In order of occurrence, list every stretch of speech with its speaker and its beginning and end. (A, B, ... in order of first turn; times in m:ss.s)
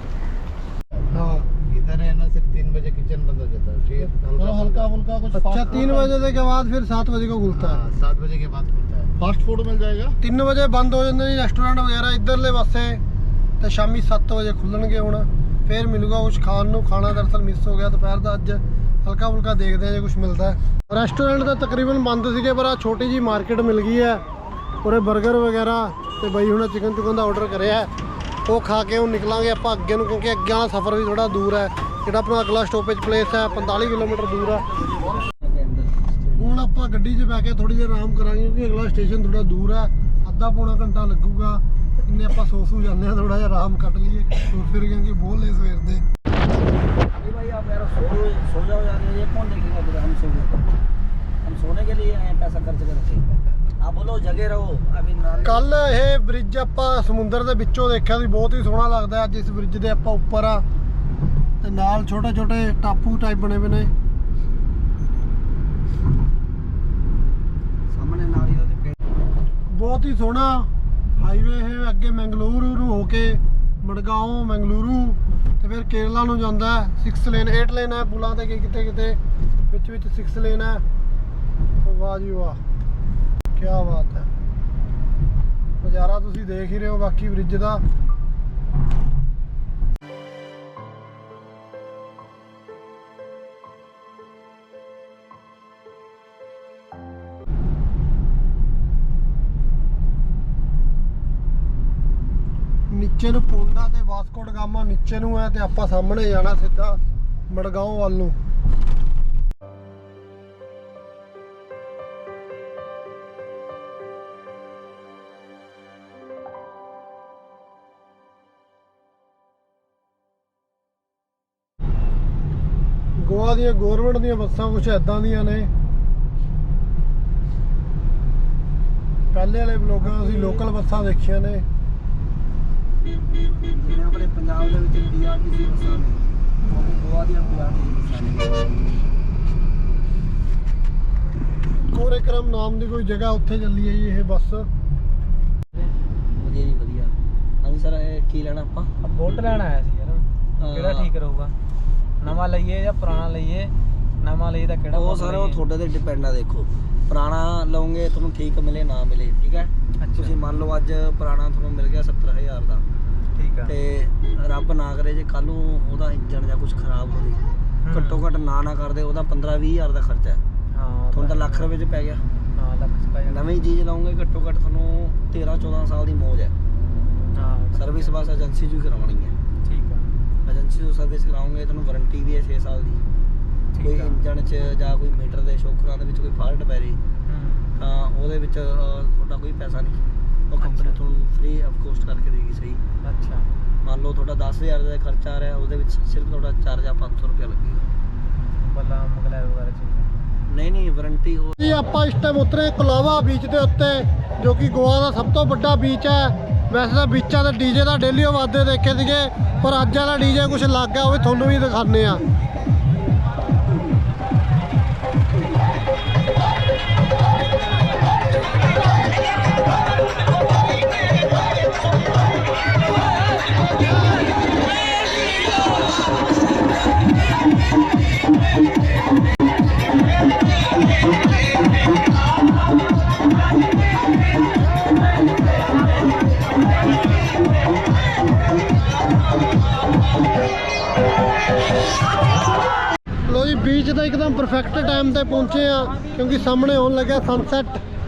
0:01.1-0:01.5 A
0:01.5-0:06.1 B
0:04.4-0:07.9 A
0:07.6-0:10.2 B
0:10.2-0:13.0 A
0:13.6-0:24.2 A
0:24.8-0:27.9 A
0:28.5-0:34.6 A
0:34.7-0:36.5 C
0:36.4-0:46.0 A
0:47.1-0:50.6 C
0:51.4-0:53.2 C
0:53.8-0:55.7 C
0:55.4-1:00.6 A
1:01.6-1:03.9 A
1:07.9-1:08.9 C
1:09.7-1:20.8 A
1:21.8-1:22.6 A
1:23.5-1:24.3 A
1:25.8-1:27.8 A
1:42.9-1:48.4 A
2:03.2-2:05.7 A
2:09.3-2:11.6 A
2:10.1-2:10.6 C
2:13.6-2:19.0 C
2:21.9-2:24.7 A
2:26.4-2:28.9 C
2:29.0-2:31.5 D
2:30.6-2:31.1 C
2:32.2-2:33.7 D
2:34.2-2:35.6 D
2:34.9-2:42.8 C
2:40.0-2:40.4 D
2:43.4-2:43.7 D
2:43.6-2:47.4 C
2:47.8-2:48.2 D
2:47.9-2:50.4 C
2:50.7-2:51.7 D
2:51.1-2:52.2 C
2:52.6-2:53.6 D
2:53.3-2:56.5 C
2:57.3-2:58.2 D
2:57.7-2:59.3 C
2:59.6-3:00.1 D
3:00.4-3:03.0 C
3:03.7-3:04.2 D
3:03.8-3:07.0 C
3:07.3-3:07.8 D
3:07.8-3:12.8 C
3:10.6-3:11.0 D
3:13.0-3:13.5 D
3:13.8-3:17.8 C
3:18.6-3:20.2 D
3:20.5-3:21.9 C
3:21.6-3:32.2 A
4:03.3-4:07.8 A